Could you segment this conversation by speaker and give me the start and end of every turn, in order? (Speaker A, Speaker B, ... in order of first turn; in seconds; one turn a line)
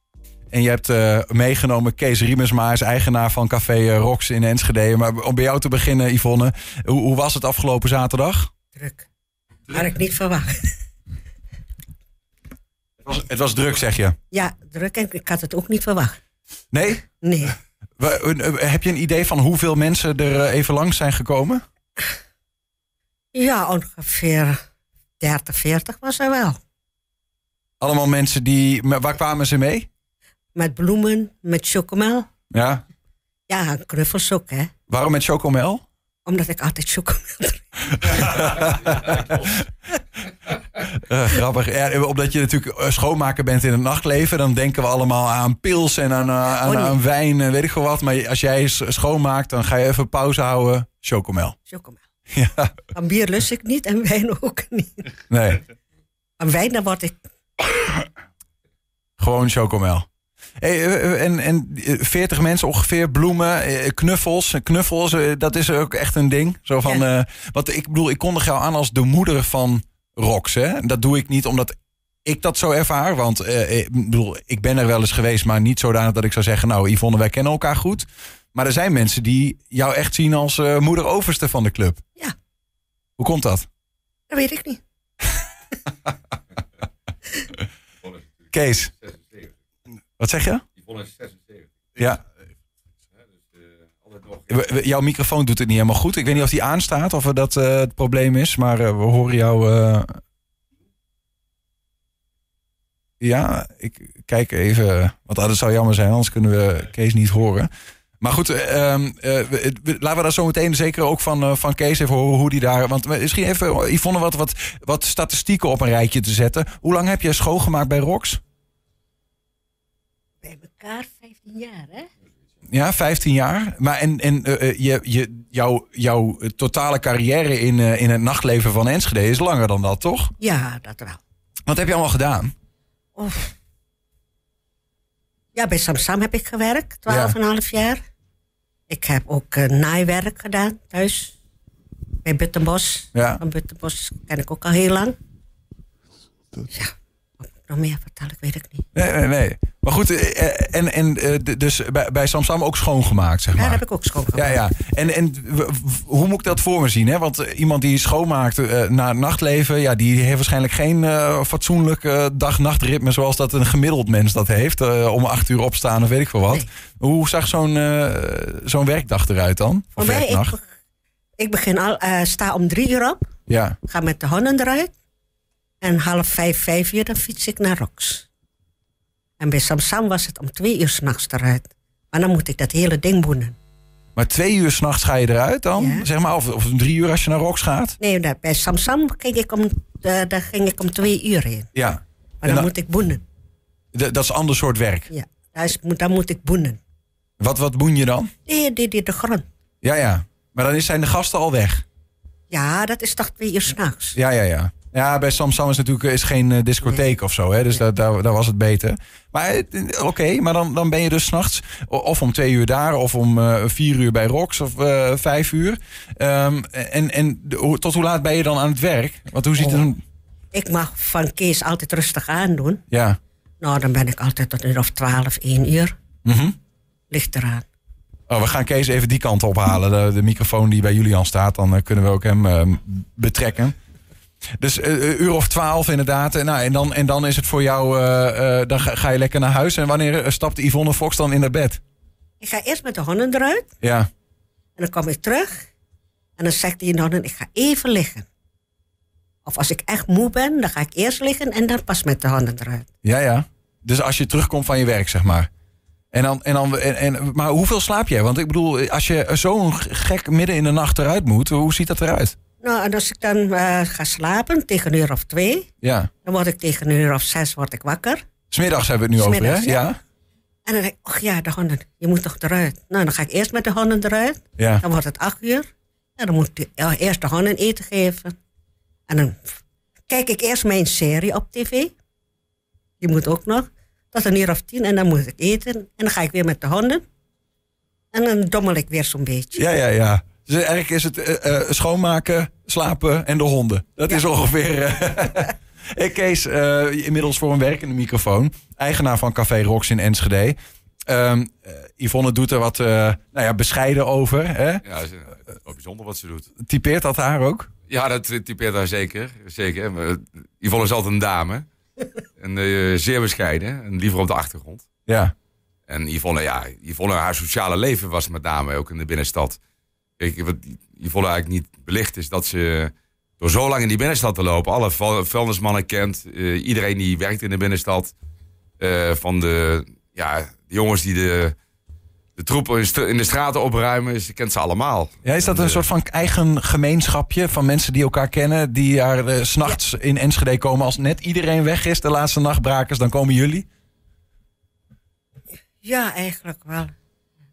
Speaker A: 0.5-8.5
Speaker B: 8.8-9.1
Speaker B: 9.7-10.8
Speaker A: 13.0-14.2
Speaker B: 14.3-16.2
Speaker A: 16.7-17.1
Speaker B: 17.2-17.5
Speaker A: 18.0-21.6
Speaker B: 23.3-24.6
Speaker B: 25.2-26.6
Speaker A: 27.8-29.9
Speaker B: 30.5-32.3
Speaker A: 32.5-32.8
Speaker B: 33.5-34.7
Speaker A: 34.9-35.8
Speaker B: 36.2-38.5
Speaker A: 37.9-39.4
Speaker A: 40.8-51.5
Speaker B: 46.6-47.0
Speaker B: 51.7-52.0
Speaker A: 52.3-52.8
Speaker B: 52.9-55.2
Speaker A: 55.3-55.6
Speaker B: 56.4-57.2
Speaker A: 59.2-60.0
Speaker A: 60.6-82.0
Speaker A: 83.2-83.7
Speaker B: 84.3-84.8
Speaker A: 88.5-88.9
Speaker C: 88.9-89.5
Speaker A: 90.2-90.6
Speaker C: 90.8-91.7
Speaker A: 92.0-92.2
Speaker C: 93.5-94.5
Speaker A: 94.5-100.2
Speaker A: 103.2-107.7
Speaker A: 108.2-118.4
Speaker B: 120.4-122.1
Speaker A: 122.7-130.3
Speaker B: 130.4-131.2
Speaker A: 131.7-132.5
Speaker B: 133.2-133.5
Speaker B: 135.6-138.0
Speaker A: 137.1-137.3
Speaker B: 138.9-141.3
Speaker B: 142.2-145.1
Speaker A: 143.1-143.4
Speaker B: 147.6-148.9
Speaker A: 148.9-153.8
Speaker B: 153.5-154.6
Speaker A: 154.3-170.6
Speaker B: 169.9-170.7
Speaker B: 171.4-173.2
Speaker A: 173.5-173.8
Speaker B: 173.8-174.9
Speaker B: 175.8-178.3
Speaker B: 179.4-183.6
Speaker A: 184.2-188.0
Speaker B: 185.8-186.1
Speaker B: 188.0-191.7
Speaker A: 191.8-192.7
Speaker B: 192.4-193.2
Speaker A: 193.9-195.1
Speaker B: 195.1-196.8
Speaker A: 197.4-198.3
Speaker B: 198.5-199.4
Speaker A: 199.8-201.8
Speaker B: 202.5-204.2
Speaker A: 204.2-220.0
Speaker B: 219.6-219.9
Speaker B: 220.5-222.8
Speaker A: 222.9-223.2
Speaker B: 223.6-225.9
Speaker A: 226.2-226.6
Speaker B: 227.1-227.7
Speaker A: 228.3-233.8
Speaker A: 234.6-241.8
Speaker B: 242.4-243.7
Speaker A: 243.8-244.1
Speaker B: 244.8-245.7
Speaker B: 246.4-248.3
Speaker B: 249.4-252.9
Speaker A: 253.0-255.5
Speaker A: 256.1-262.3
Speaker B: 262.6-265.7
Speaker A: 265.8-266.1
Speaker B: 266.2-268.2
Speaker A: 268.5-270.0
Speaker B: 269.2-269.8
Speaker B: 270.6-275.7
Speaker A: 274.6-274.8
Speaker B: 276.2-278.3
Speaker B: 279.1-279.5
Speaker B: 280.1-281.9
Speaker B: 283.0-287.0
Speaker B: 288.1-289.6
Speaker A: 289.5-304.8
Speaker C: 304.8-306.5
Speaker A: 306.6-307.7
Speaker C: 307.9-311.7
Speaker C: 312.4-314.9
Speaker A: 315.1-315.3
Speaker C: 315.9-319.6
Speaker C: 320.2-328.1
Speaker C: 328.8-331.5
Speaker C: 332.4-335.8
Speaker A: 335.2-343.7
Speaker B: 345.8-346.9